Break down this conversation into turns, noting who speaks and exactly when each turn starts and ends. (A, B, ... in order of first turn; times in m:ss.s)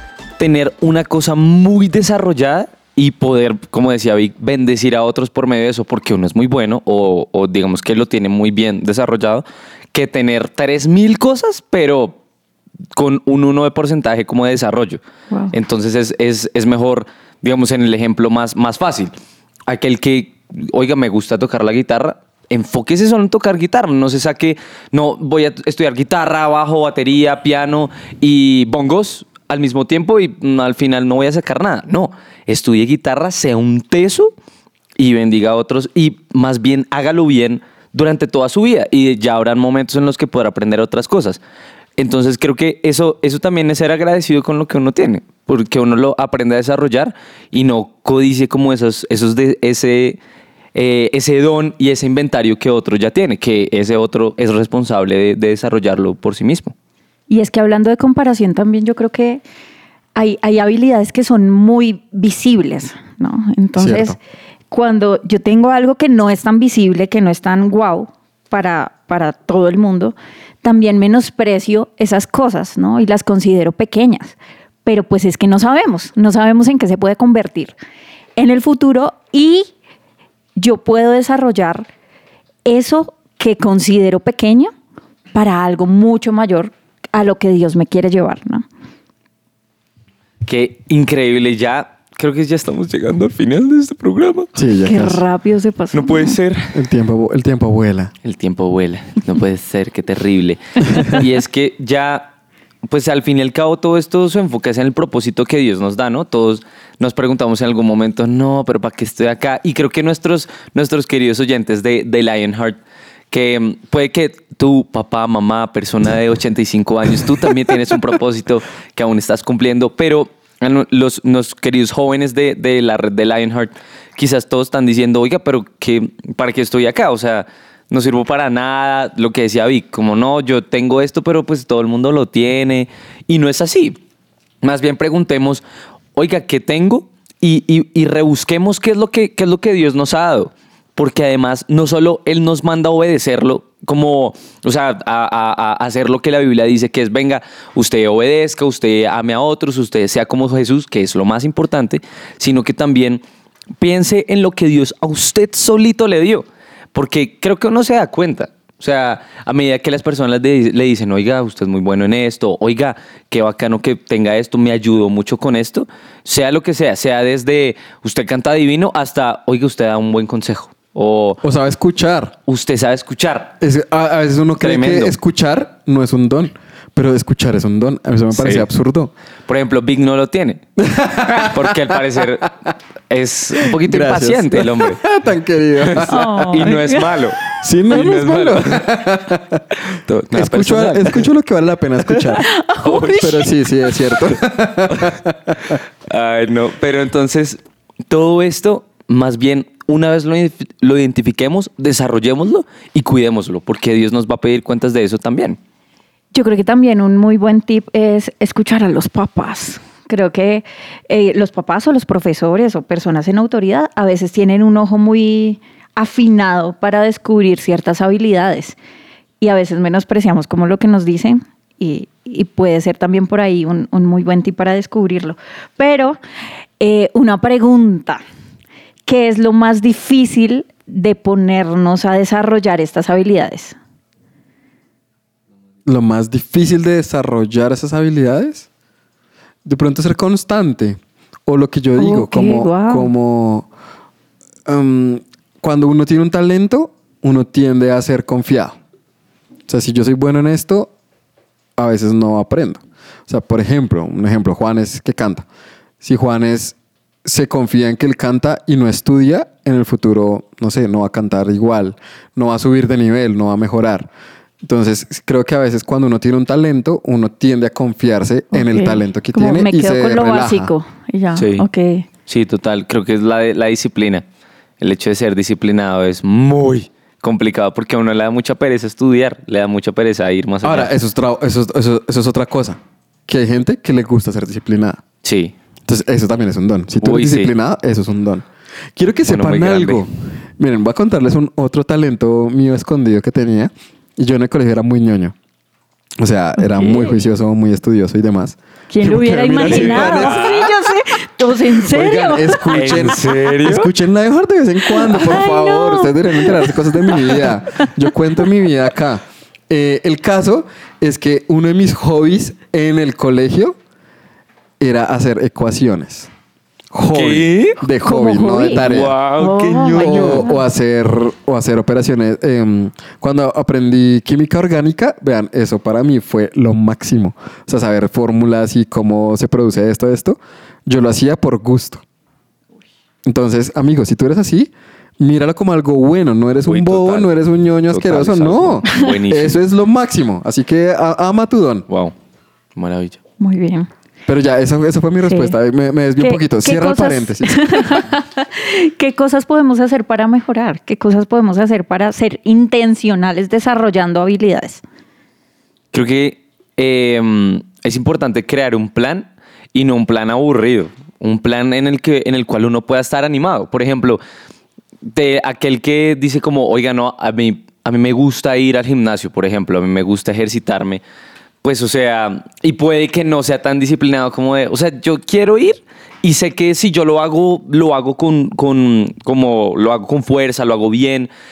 0:00.4-0:12.2 A
0:13.0-0:15.0 A
0:15.5-0:19.1 A
0:19.7-0:34.3 A
0:35.0-0:41.4 A
0:42.0-0:50.2 A
0:50.7-0:56.7 A
0:57.3-0:59.4 B
1:00.2-1:04.2 B
1:03.8-1:04.2 C
1:04.7-1:17.8 B
1:18.4-1:19.7 B
1:20.6-1:21.9 B
1:22.6-1:24.7 B
1:25.3-1:28.6 B
1:30.4-1:34.5 A
1:34.6-1:35.2 C
1:34.8-1:36.4 B
1:35.9-1:36.7 A
1:36.7-1:38.1 C
1:38.2-1:42.3 A
1:42.9-1:52.8 A
1:53.3-2:14.0 A
2:14.6-2:15.6 A
2:16.2-2:33.2 A
2:33.8-2:51.4 A
2:51.4-2:52.4 C
2:52.5-2:53.5 A
2:53.6-2:59.1 C
2:54.6-2:55.1 A
2:58.3-2:58.7 A
2:59.5-3:00.6 A
3:00.8-3:02.2 C
3:01.3-3:02.5 A
3:03.1-3:05.0 A
3:03.6-3:06.7 C
3:05.8-3:09.0 A
3:06.1-3:07.0 B
3:07.6-3:09.6 C
3:09.9-3:11.3 A
3:10.3-3:12.4 C
3:12.4-3:13.5 B
3:12.8-3:13.4 A
3:13.0-3:15.8 C
3:16.1-3:25.6 A
3:26.3-3:38.8 B
3:39.4-3:46.2 B
3:46.8-3:48.2 B
3:49.1-3:53.8 B
3:55.8-3:58.7 C
3:59.6-4:03.7 C
4:02.0-4:03.1 B
4:04.6-4:08.8 C
4:09.7-4:10.9 C
4:11.8-4:15.4 C
4:16.0-4:24.1 C
4:24.6-4:30.7 C
4:28.5-4:32.0 B
4:31.4-4:31.7 A
4:32.3-4:34.2 A
4:34.8-4:40.9 A
4:40.6-4:45.0 C
4:45.2-4:45.5 A
4:45.9-4:55.3 C
4:47.0-4:47.5 A
4:49.3-4:50.0 A
4:56.2-5:00.6 C
4:56.6-4:57.2 B
4:58.9-5:02.7 B
4:59.6-5:00.7 A
5:01.7-5:13.8 C
5:02.7-5:03.9 A
5:04.9-5:07.1 B
5:14.8-5:16.3 C
5:16.9-5:32.0 C
5:17.1-5:17.8 A
5:18.0-5:18.8 B
5:18.7-5:20.5 A
5:19.4-5:20.6 B
5:33.2-5:41.8 C
5:36.6-5:37.4 A
5:37.9-5:39.6 A
5:41.9-5:42.1 A
5:42.8-5:43.2 A
5:43.4-5:43.9 B
5:44.3-5:48.0 C
5:45.2-5:45.5 B
5:46.2-5:54.8 B
5:55.9-6:04.2 A
6:05.0-6:11.0 A
6:11.6-6:21.3 A